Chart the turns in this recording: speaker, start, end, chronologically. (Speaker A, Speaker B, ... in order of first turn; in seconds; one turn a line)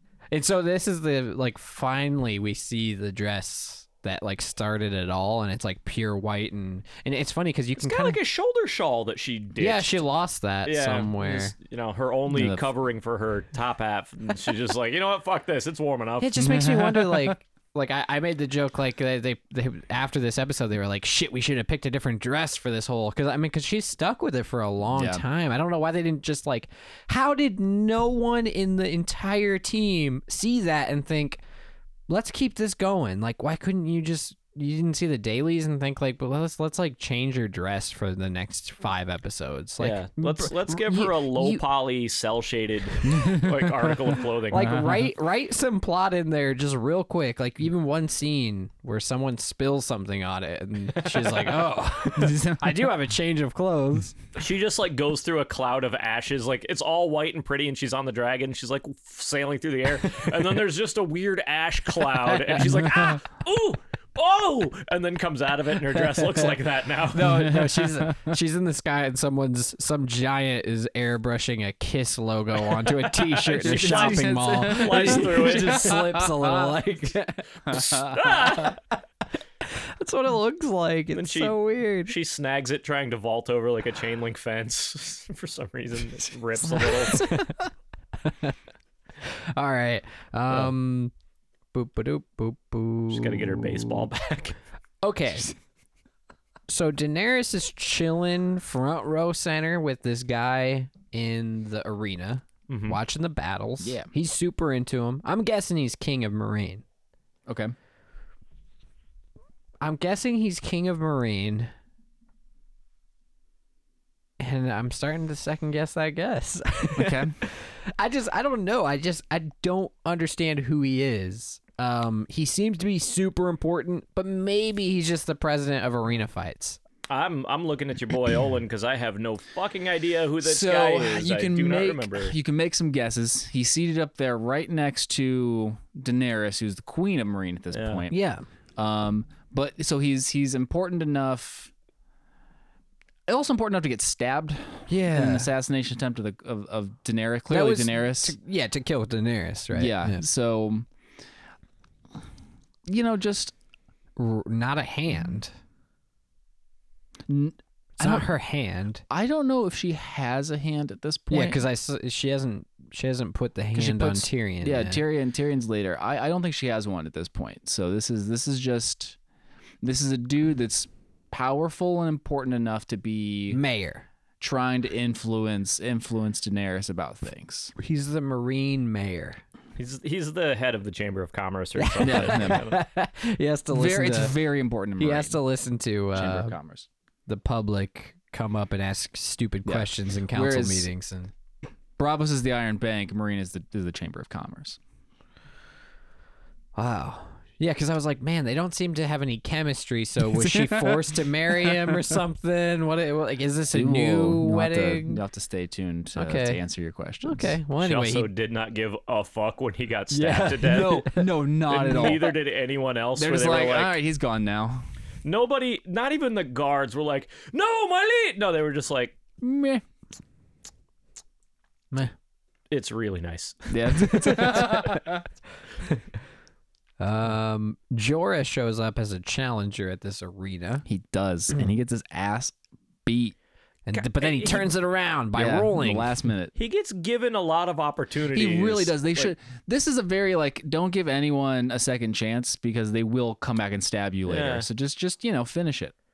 Speaker A: 0.3-8.2
Speaker B: 7.8-10.0
Speaker A: 9.6-11.5
Speaker B: 10.6-16.4
Speaker C: 12.3-12.6
Speaker A: 16.2-31.4
Speaker C: 16.4-17.3
Speaker C: 24.9-25.2
Speaker A: 32.1-41.6
Speaker B: 39.8-44.8
Speaker C: 43.0-43.7
Speaker A: 44.5-54.1
Speaker C: 44.5-45.0
Speaker B: 51.0-51.6
Speaker C: 52.1-52.9
Speaker B: 54.4-67.4
Speaker A: 62.3-63.1
Speaker A: 66.1-66.5
Speaker A: 67.1-77.8
Speaker C: 67.3-68.3
Speaker B: 73.2-76.0
Speaker C: 73.6-76.8
Speaker C: 77.7-78.2
Speaker B: 77.7-78.8
Speaker A: 79.6-82.1
Speaker B: 81.1-87.3
Speaker A: 86.7-87.7
Speaker A: 88.2-88.5
Speaker A: 89.2-91.1
Speaker A: 91.7-94.1
Speaker B: 93.1-94.5
Speaker A: 95.0-95.5
Speaker A: 96.7-106.8
Speaker B: 102.7-103.0
Speaker C: 103.8-104.1
Speaker C: 107.5-107.7
Speaker A: 109.8-111.7
Speaker A: 114.4-126.8
Speaker C: 117.0-117.3
Speaker B: 127.1-132.3
Speaker C: 130.4-138.2
Speaker B: 137.7-138.1
Speaker A: 138.1-138.4
Speaker C: 138.8-141.7
Speaker C: 143.3-148.3
Speaker A: 144.9-145.5
Speaker A: 147.5-150.2
Speaker C: 149.7-150.9
Speaker C: 152.9-153.5
Speaker A: 154.2-155.5
Speaker C: 157.3-158.3
Speaker A: 158.0-159.0
Speaker C: 159.1-161.6
Speaker A: 161.3-165.0
Speaker C: 163.7-169.2
Speaker C: 169.8-173.6
Speaker A: 173.5-174.1
Speaker C: 174.4-177.7
Speaker A: 177.8-179.4
Speaker B: 179.8-182.8
Speaker A: 181.8-184.3
Speaker C: 182.0-182.7
Speaker C: 183.7-185.4
Speaker A: 185.0-186.5
Speaker C: 186.1-186.9
Speaker A: 187.3-191.3
Speaker C: 189.6-190.9
Speaker C: 192.0-194.8
Speaker A: 196.8-205.2
Speaker C: 200.2-202.2
Speaker C: 203.7-207.6
Speaker A: 206.1-206.6
Speaker A: 207.2-208.3
Speaker B: 207.8-211.1
Speaker A: 210.1-211.2
Speaker C: 210.2-212.3
Speaker B: 211.7-214.0
Speaker C: 213.2-214.8
Speaker B: 215.2-219.2
Speaker C: 219.4-219.8
Speaker B: 222.7-224.8
Speaker C: 223.7-225.2
Speaker A: 224.2-225.1
Speaker A: 227.0-230.8
Speaker C: 230.8-233.3
Speaker A: 233.9-236.2
Speaker B: 233.9-234.7
Speaker C: 235.3-236.5
Speaker B: 236.5-239.3
Speaker C: 238.3-245.9
Speaker B: 244.3-244.7